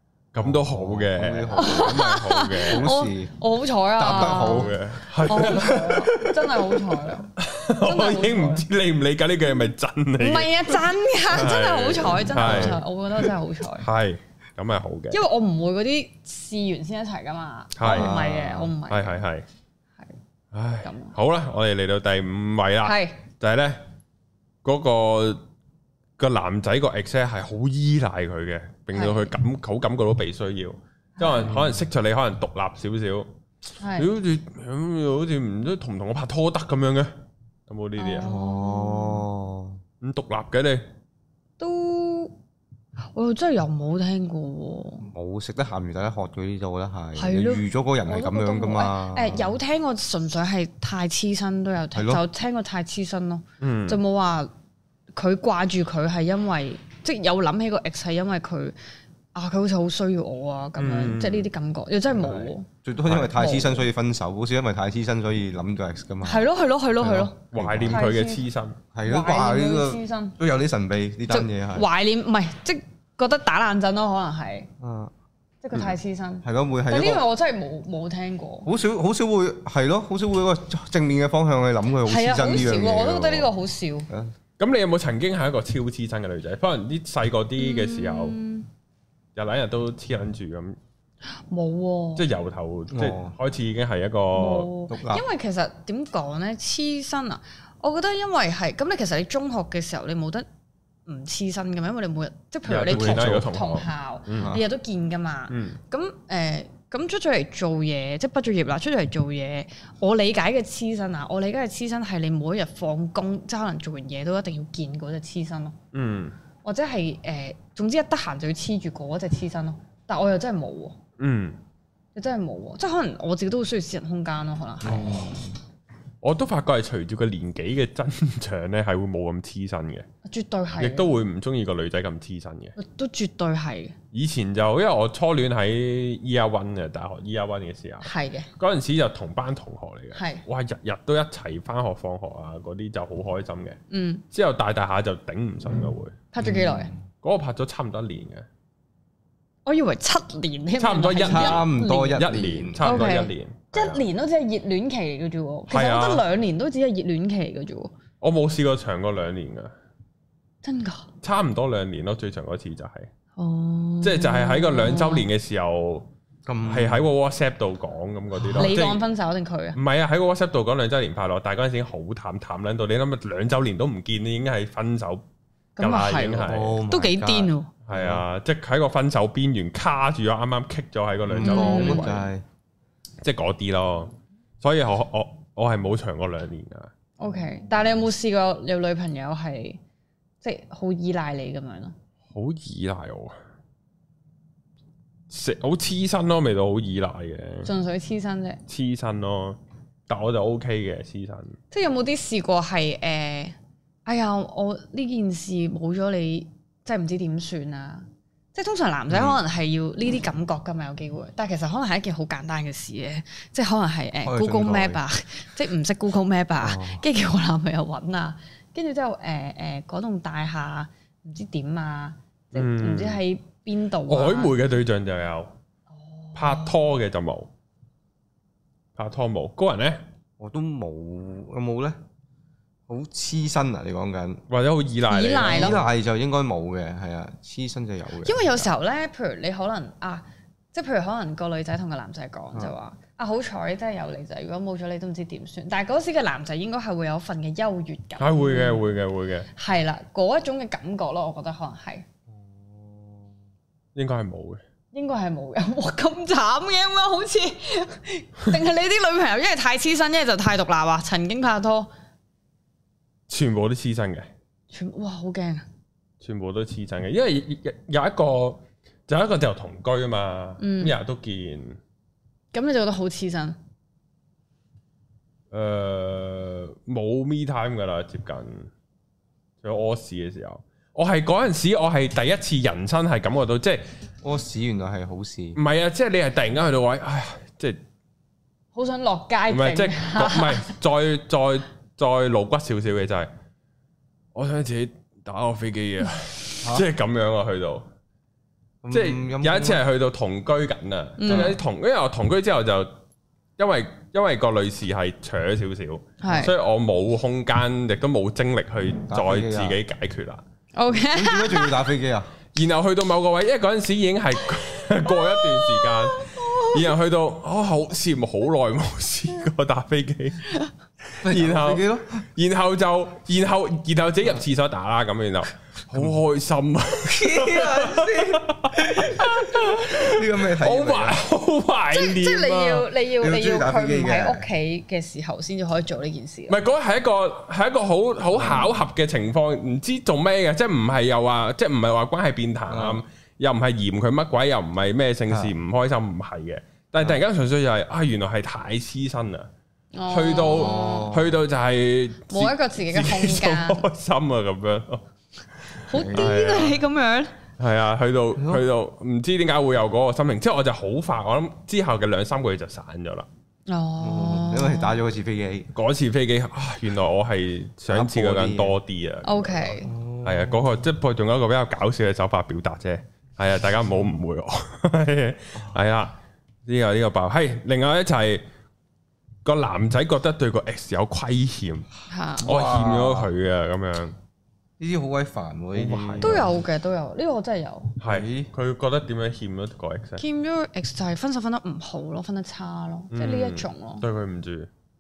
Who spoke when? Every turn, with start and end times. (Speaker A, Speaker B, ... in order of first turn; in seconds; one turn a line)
Speaker A: 0.3-2.9
Speaker B: 0.4-3.4
Speaker C: 1.6-8.7
Speaker B: 4.0-4.8
Speaker A: 4.1-12.8
Speaker C: 10.2-13.9
Speaker B: 12.3-12.8
Speaker A: 13.8-15.2
Speaker C: 15.1-19.2
Speaker A: 17.8-19.5
Speaker B: 17.9-18.7
Speaker A: 20.5-23.8
Speaker C: 20.8-21.1
Speaker C: 22.8-23.2
Speaker A: 24.6-25.4
Speaker A: 26.2-33.3
Speaker C: 28.9-29.3
Speaker C: 31.2-31.5
Speaker B: 31.5-31.8
Speaker C: 33.8-34.1
Speaker A: 34.0-37.1
Speaker A: 37.7-38.3
Speaker C: 38.0-39.3
Speaker B: 38.2-39.8
Speaker A: 40.0-40.9
Speaker C: 41.6-42.4
Speaker C: 43.1-45.1
Speaker B: 45.0-49.6
Speaker C: 47.2-54.5
Speaker B: 51.9-52.2
Speaker A: 53.6-54.0
Speaker C: 55.1-58.8
Speaker C: 59.3-62.7
Speaker A: 60.8-61.5
Speaker B: 62.1-68.0
Speaker C: 63.3-63.9
Speaker C: 66.2-68.4
Speaker A: 67.5-68.8
Speaker B: 68.9-71.9
Speaker C: 69.1-70.4
Speaker C: 71.3-74.7
Speaker B: 74.8-75.1
Speaker C: 75.6-78.7
Speaker B: 75.7-77.2
Speaker B: 78.7-83.5
Speaker C: 82.0-84.1
Speaker A: 84.6-88.4
Speaker C: 87.6-88.7
Speaker A: 89.4-90.8
Speaker C: 91.5-92.3
Speaker A: 92.2-94.7
Speaker B: 92.9-93.3
Speaker C: 94.3-100.5
Speaker B: 94.9-95.3
Speaker C: 101.1-115.8
Speaker A: 102.7-104.6
Speaker B: 102.9-103.5
Speaker B: 104.4-104.6
Speaker A: 105.5-105.8
Speaker A: 115.9-116.3
Speaker C: 116.6-121.0
Speaker A: 121.2-121.6
Speaker C: 122.2-125.3
Speaker B: 124.8-125.5
Speaker A: 126.2-130.1
Speaker C: 130.2-131.2
Speaker A: 130.8-132.8
Speaker C: 132.8-134.0
Speaker A: 134.1-143.8
Speaker C: 138.0-138.5
Speaker C: 140.2-140.4
Speaker C: 143.9-144.2
Speaker A: 144.3-146.2
Speaker C: 146.3-146.9
Speaker B: 146.4-147.0
Speaker A: 147.2-148.5
Speaker C: 149.7-152.3
Speaker A: 150.8-154.0
Speaker B: 151.2-153.2
Speaker C: 152.8-157.9
Speaker A: 155.7-156.2
Speaker A: 158.2-159.7
Speaker C: 160.6-161.1
Speaker A: 161.2-163.1
Speaker C: 163.4-165.3
Speaker A: 164.0-166.1
Speaker B: 166.5-167.1
Speaker A: 166.7-169.0
Speaker C: 168.6-169.8
Speaker A: 169.8-175.2
Speaker C: 175.8-177.7
Speaker A: 175.8-176.8
Speaker B: 176.4-178.2
Speaker A: 177.9-182.1
Speaker B: 181.3-182.4
Speaker C: 181.4-182.3
Speaker A: 183.2-186.9
Speaker C: 187.2-189.8
Speaker C: 190.4-191.9
Speaker A: 192.3-193.4
Speaker A: 195.3-197.7
Speaker C: 197.7-198.6
Speaker A: 198.7-201.6
Speaker C: 201.7-224.6
Speaker B: 214.2-215.0
Speaker B: 216.6-217.0
Speaker A: 222.5-223.2
Speaker A: 224.1-225.5
Speaker C: 226.2-226.8
Speaker A: 226.3-227.5
Speaker A: 229.0-230.0
Speaker B: 230.4-232.0
Speaker B: 232.9-234.4
Speaker A: 234.5-235.8
Speaker C: 235.1-235.8
Speaker B: 235.4-238.7
Speaker C: 238.2-248.8
Speaker A: 248.2-249.5
Speaker C: 249.6-252.1
Speaker B: 252.3-253.4
Speaker A: 253.9-254.6
Speaker C: 254.9-261.9
Speaker A: 263.3-264.3
Speaker C: 264.7-265.6
Speaker A: 266.2-271.8
Speaker C: 270.6-271.0
Speaker C: 272.5-273.6
Speaker A: 275.5-278.7
Speaker A: 279.6-283.8
Speaker B: 284.2-285.6
Speaker A: 285.6-287.8
Speaker C: 288.8-290.7
Speaker A: 289.5-293.3
Speaker A: 294.4-297.9
Speaker B: 298.8-299.8
Speaker A: 298.9-302.9
Speaker C: 301.2-301.6
Speaker B: 301.3-301.6
Speaker A: 303.6-310.4
Speaker C: 306.2-306.5
Speaker B: 309.1-309.8
Speaker C: 310.8-311.9
Speaker B: 310.9-312.3
Speaker A: 312.6-320.5
Speaker C: 315.1-316.9
Speaker A: 321.2-332.9
Speaker B: 321.2-322.2
Speaker B: 327.0-331.2
Speaker C: 331.9-336.6
Speaker B: 333.2-334.5
Speaker A: 336.5-349.5
Speaker B: 338.3-338.7
Speaker B: 342.7-343.0
Speaker C: 349.9-351.2
Speaker A: 350.1-355.0
Speaker B: 350.4-351.4
Speaker C: 352.3-353.8
Speaker A: 355.7-356.8
Speaker C: 355.9-357.3
Speaker B: 355.9-356.4
Speaker A: 357.6-363.3
Speaker B: 358.4-358.6
Speaker C: 363.7-365.0
Speaker B: 364.0-365.7
Speaker A: 365.7-378.4
Speaker B: 367.9-368.8
Speaker C: 369.2-369.9
Speaker B: 369.8-370.6
Speaker A: 379.4-381.9
Speaker C: 382.1-382.5
Speaker B: 382.4-383.3
Speaker A: 382.4-384.2
Speaker B: 384.8-386.6
Speaker A: 385.7-386.5
Speaker C: 386.2-388.0
Speaker A: 388.0-390.2
Speaker B: 388.0-388.5
Speaker C: 390.2-394.1
Speaker A: 393.1-394.7